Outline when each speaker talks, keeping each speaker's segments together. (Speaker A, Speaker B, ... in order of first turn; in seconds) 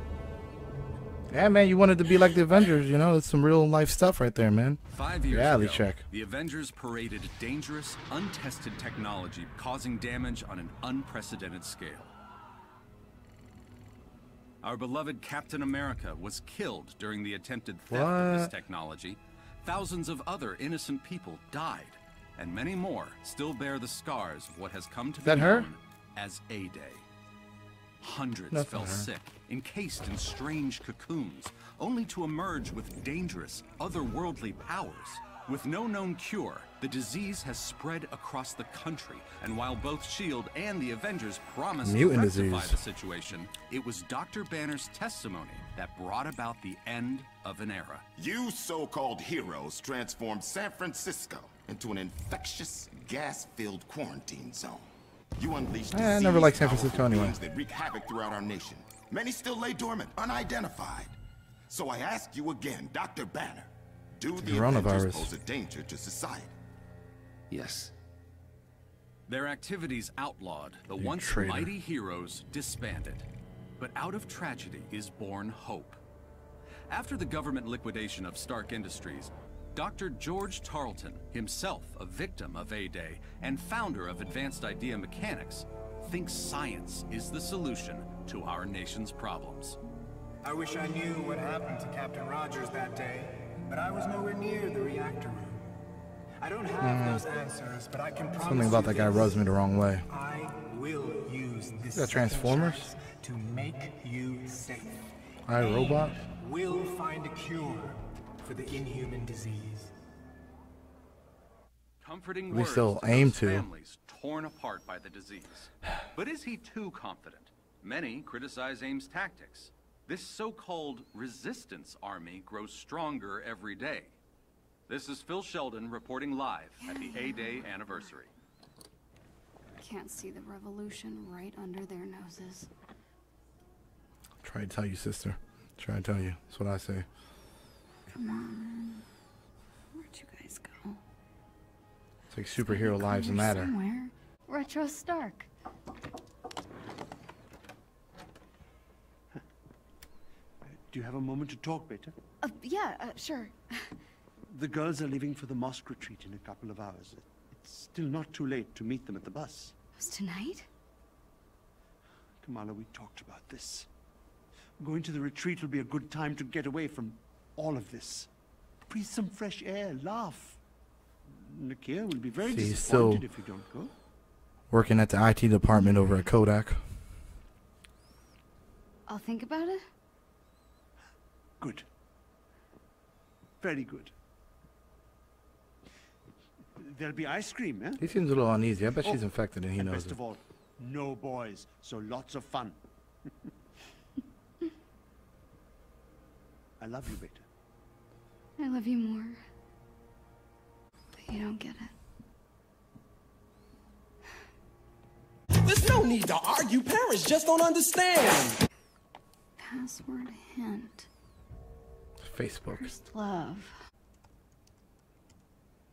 Speaker A: 1.3-6.0, 17.9-18.5, 25.2-25.7, 28.5-29.1, 41.8-42.8, 55.9-57.4, 64.4-65.3, 71.0-71.7, 96.8-97.2, 98.5-100.1, 102.0-102.9, 105.5-106.2, 112.5-113.7, 134.4-137.1, 142.3-143.7, 172.4-173.2, 174.7-176.8, 188.0-190.2, 212.2-212.9
Speaker B: 4.9-12.1, 14.6-27.0, 28.0-48.0, 69.3-73.3, 73.8-76.0, 76.9-89.8, 112.0-124.1, 124.9-128.3
Speaker C: 48.2-61.2, 61.7-66.5
Speaker D: 67.5-67.9, 205.8-207.9
Speaker E: 90.4-95.7, 96.4-99.4, 100.1-105.1, 106.2-109.9
Speaker F: 126.8-127.9, 129.8-132.7, 138.1-139.1, 139.9-141.0, 142.6-145.5, 152.4-154.0, 160.0-160.7, 179.1-179.8, 198.6-199.4, 201.2-201.9, 209.6-211.1, 212.7-213.8
Speaker G: 150.7-152.1, 154.5-159.7, 162.4-163.9, 164.8-168.3, 168.9-170.6, 171.3-173.9, 181.6-181.8, 183.6-184.1, 186.8-188.0, 189.8-192.8, 196.8-197.5